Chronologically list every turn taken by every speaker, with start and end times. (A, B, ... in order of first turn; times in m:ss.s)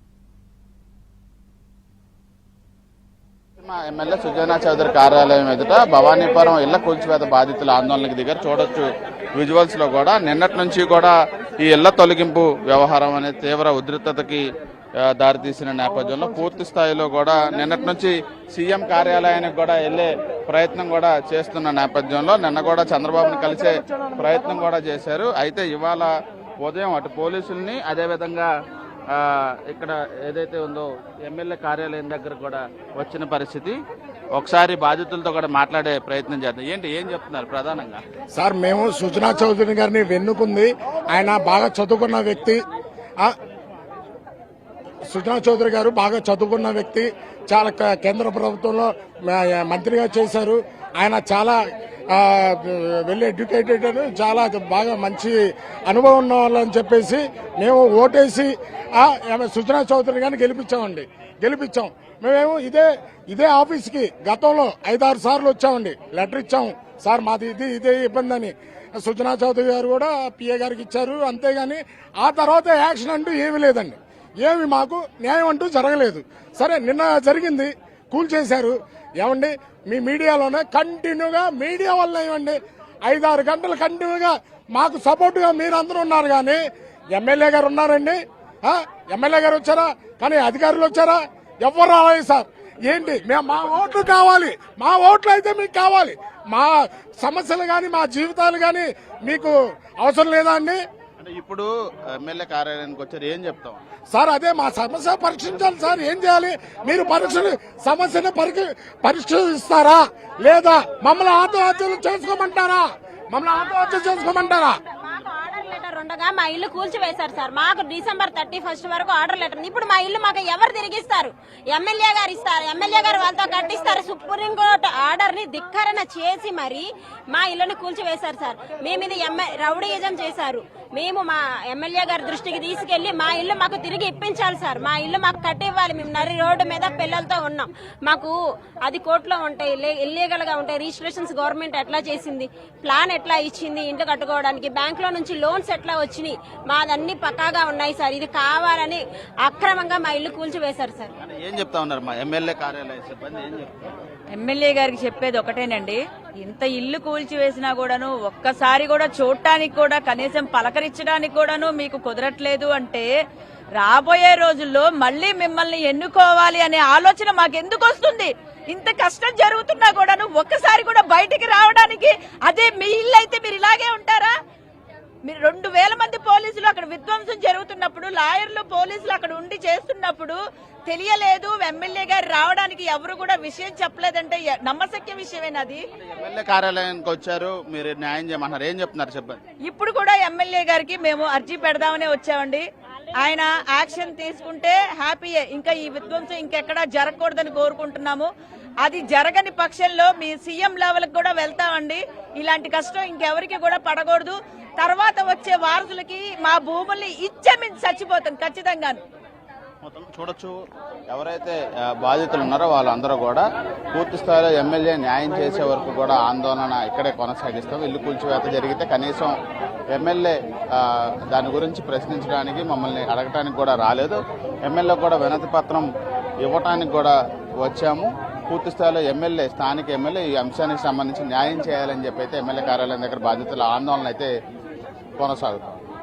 0:03.6-0:14.4 A
0:15.1-0:26.1 A
0:26.6-0:28.5 A
0:29.1-0:33.8 A
0:34.3-0:38.0 A
0:38.3-0:42.6 B
0:45.1-1:26.6 B
1:27.1-1:40.8 B
1:41.2-1:43.8 A
1:44.1-1:54.8 B
1:53.7-2:18.3 C
2:18.8-2:31.1 C
2:31.2-2:33.9 A
2:34.3-2:43.1 D
2:43.8-2:54.3 D
2:55.3-3:05.8 D
3:06.0-3:09.4 A
3:09.7-3:12.6 D
3:13.2-3:18.3 D
3:18.8-3:29.0 D
3:29.8-3:30.5 A
3:31.1-3:39.4 A
3:39.9-3:45.8 A
3:46.4-3:54.3 A
3:55.2-3:55.6 A